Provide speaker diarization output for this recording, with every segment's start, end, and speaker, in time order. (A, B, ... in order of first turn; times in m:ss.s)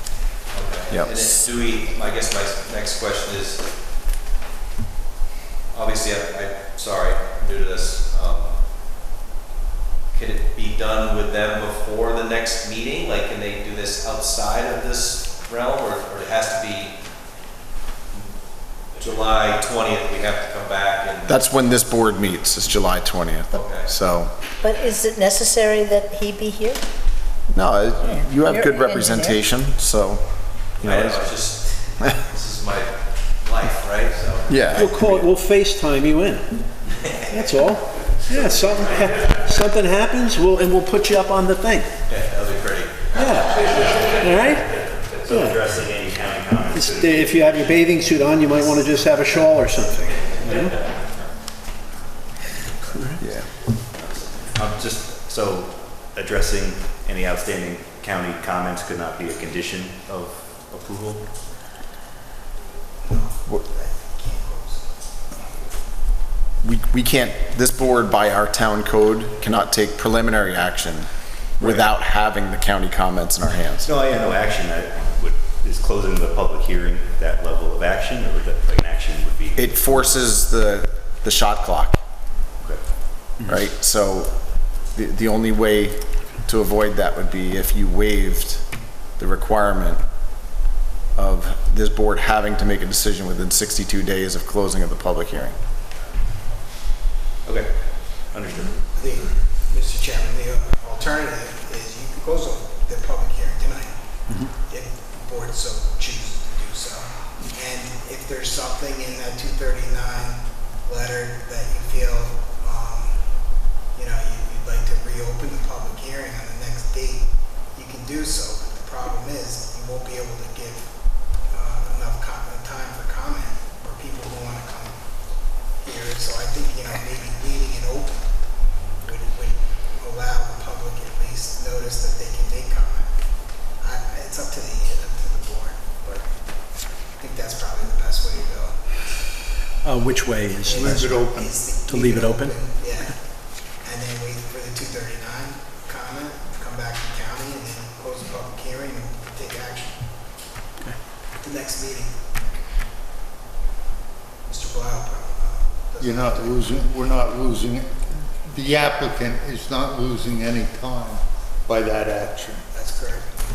0:00.5-0:03.6 A
0:00.9-0:01.4 B
0:05.7-0:08.6 A
0:10.1-0:17.0 A
0:19.0-0:21.4 A
0:21.3-0:24.3 B
0:23.5-0:23.9 A
0:24.6-0:26.8 C
0:27.5-0:31.3 B
0:28.0-0:29.4 C
0:30.8-0:35.3 A
0:34.5-0:34.9 B
0:34.7-0:36.6 D
0:37.3-0:41.9 D
0:38.3-0:38.6 A
0:42.1-0:44.1 A
0:43.1-0:45.6 D
0:45.2-0:47.7 E
0:46.7-0:50.8 D
0:52.9-0:53.2 D
0:53.2-0:53.5 B
0:54.5-1:01.3 E
1:03.1-1:05.6 F
1:06.6-1:13.9 B
1:13.9-1:20.1 E
1:19.6-1:22.0 B
1:23.4-1:28.6 B
1:29.2-1:30.0 B
1:31.2-1:35.6 B
1:38.3-1:38.8 A
1:38.9-1:44.0 F
1:44.7-1:53.4 F
1:53.9-2:00.9 F
2:01.4-2:05.0 F
2:05.8-2:08.3 F
2:09.0-2:13.1 F
2:13.8-2:16.3 F
2:17.2-2:18.8 F
2:19.8-2:21.2 D
2:20.6-2:23.2 F
2:20.8-2:21.6 G
2:21.9-2:22.6 D
2:23.8-2:30.0 F
2:31.4-2:32.1 F
2:34.5-2:36.7 F
2:36.0-2:42.7 G
2:42.7-2:43.3 F